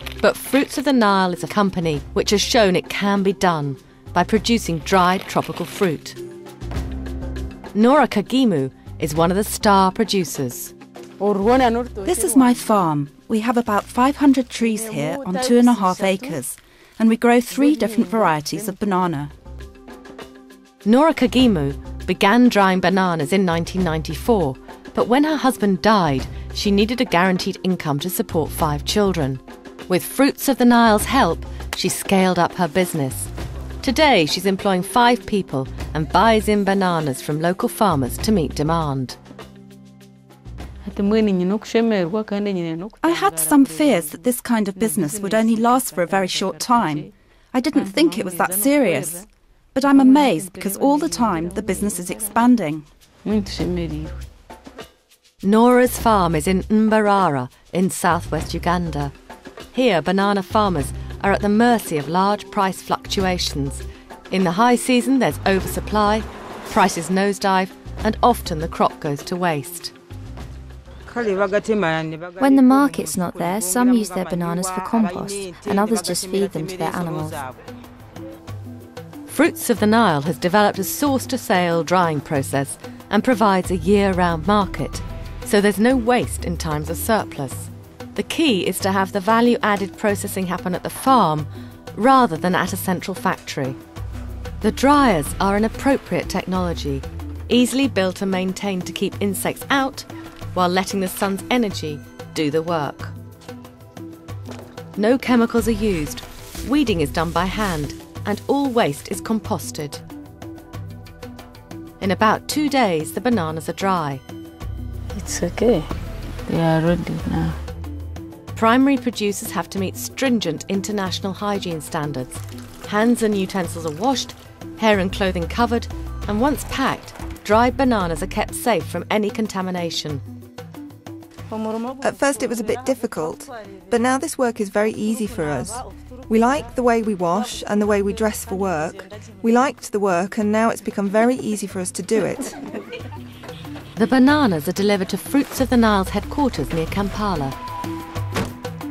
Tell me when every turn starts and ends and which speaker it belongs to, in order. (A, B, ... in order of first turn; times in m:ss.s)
0:00.2-0:06.2 A
0:07.7-0:10.7 A
0:11.2-0:12.5 B
0:12.0-0:19.3 C
0:14.8-0:16.3 B
0:17.7-0:18.5 B
0:20.8-0:33.3 A
0:33.8-0:39.2 A
0:40.8-0:44.0 B
0:43.0-0:49.2 C
0:44.9-0:47.0 B
0:47.7-0:49.2 B
0:49.7-0:52.9 C
0:50.0-0:51.7 B
0:53.2-0:54.1 B
0:55.4-0:59.1 A
0:59.7-1:09.9 A
1:12.4-1:17.4 D
1:19.3-1:33.8 A
1:34.6-1:43.1 A
1:45.0-1:50.0 A
1:52.0-1:54.2 A
1:55.2-1:55.9 B
1:56.5-1:57.6 B
1:58.5-2:10.2 A
2:12.0-2:22.6 E
2:24.0-2:27.6 A